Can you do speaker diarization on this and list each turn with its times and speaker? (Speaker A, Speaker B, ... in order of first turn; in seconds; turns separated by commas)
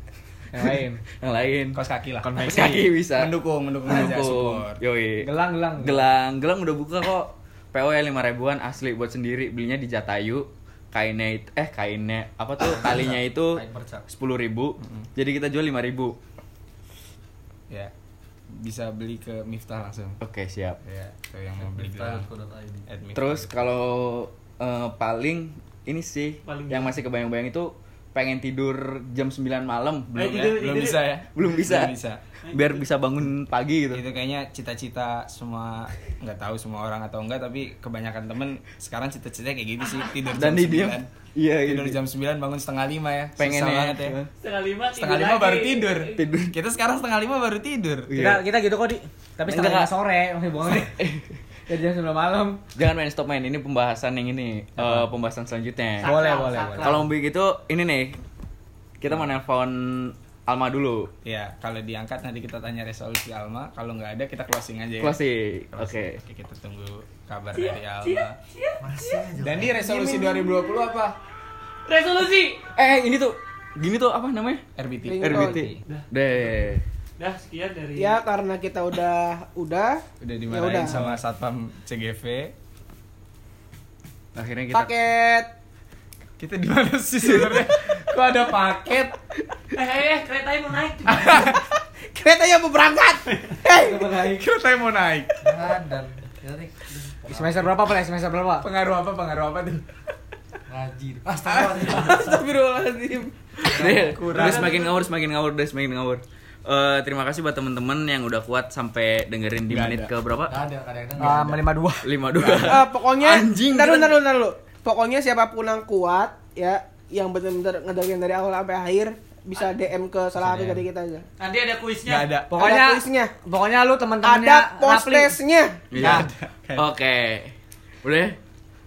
Speaker A: 0.5-1.0, Speaker B: 1.2-1.8, Speaker C: 1.7-2.4, Speaker A: 2.2-2.8, Speaker B: 2.4-3.3, Speaker C: 3.1-4.8, Speaker B: 3.9-16.2, Speaker A: 5.2-6.1, Speaker D: 12.6-14.1, Speaker C: 14.8-15.1, Speaker C: 18.5-20.2, Speaker B: 20.2-20.8, Speaker C: 20.9-22.3, Speaker D: 21.6-22.9, Speaker C: 22.9-23.6, Speaker B: 23.1-32.0, Speaker E: 26.4-27.0, Speaker E: 30.1-31.0, Speaker C: 30.4-32.2, Speaker E: 32.4-32.9, Speaker B: 32.5-34.1, Speaker C: 33.9-41.1, Speaker B: 40.3-42.0, Speaker C: 41.6-44.2, Speaker B: 43.4-44.3, Speaker E: 44.4-46.3, Speaker C: 45.0-48.1, Speaker B: 46.2-46.5, Speaker B: 48.1-48.4, Speaker A: 48.2-51.0, Speaker B: 49.5-49.9, Speaker B: 50.7-51.4, Speaker A: 51.7-52.6, Speaker B: 52.8-56.1, Speaker A: 54.8-55.1, Speaker E: 56.0-57.1, Speaker C: 56.0-57.0, Speaker B: 56.8-58.2, Speaker B: 59.0-61.1, Speaker C: 61.2-65.2, Speaker B: 65.0-66.2, Speaker C: 65.7-68.4, Speaker E: 67.5-68.8, Speaker D: 68.8-69.8, Speaker C: 69.4-71.2, Speaker F: 69.8-70.7, Speaker E: 71.8-72.7, Speaker B: 72.8-74.6, Speaker C: 74.8-75.6, Speaker F: 75.0-75.8, Speaker B: 75.2-76.8, Speaker E: 77.2-78.2, Speaker F: 78.0-81.0, Speaker C: 80.2-82.5, Speaker B: 84.3-84.9, Speaker F: 84.7-85.5, Speaker C: 86.4-89.2, Speaker B: 87.3-87.6, Speaker E: 89.7-91.5, Speaker C: 91.1-91.6, Speaker F: 91.3-91.6, Speaker F: 92.1-94.2, Speaker A: 93.7-94.4, Speaker C: 94.1-95.4, Speaker D: 95.4-97.8, Speaker A: 97.3-98.7, Speaker C: 98.6-99.8, Speaker D: 100.7-102.5, Speaker C: 101.4-102.4, Speaker F: 102.3-103.3, Speaker B: 103.6-110.6, Speaker C: 103.7-104.9, Speaker D: 103.7-104.7, Speaker C: 109.7-110.1, Speaker D: 110.5-111.7, Speaker A: 111.2-112.1, Speaker B: 112.0-114.2, Speaker F: 112.5-121.3, Speaker E: 121.4-122.4, Speaker C: 122.1-122.5, Speaker A: 122.5-125.4, Speaker F: 122.5-123.3, Speaker F: 124.2-126.1, Speaker B: 125.9-128.4, Speaker C: 126.0-126.9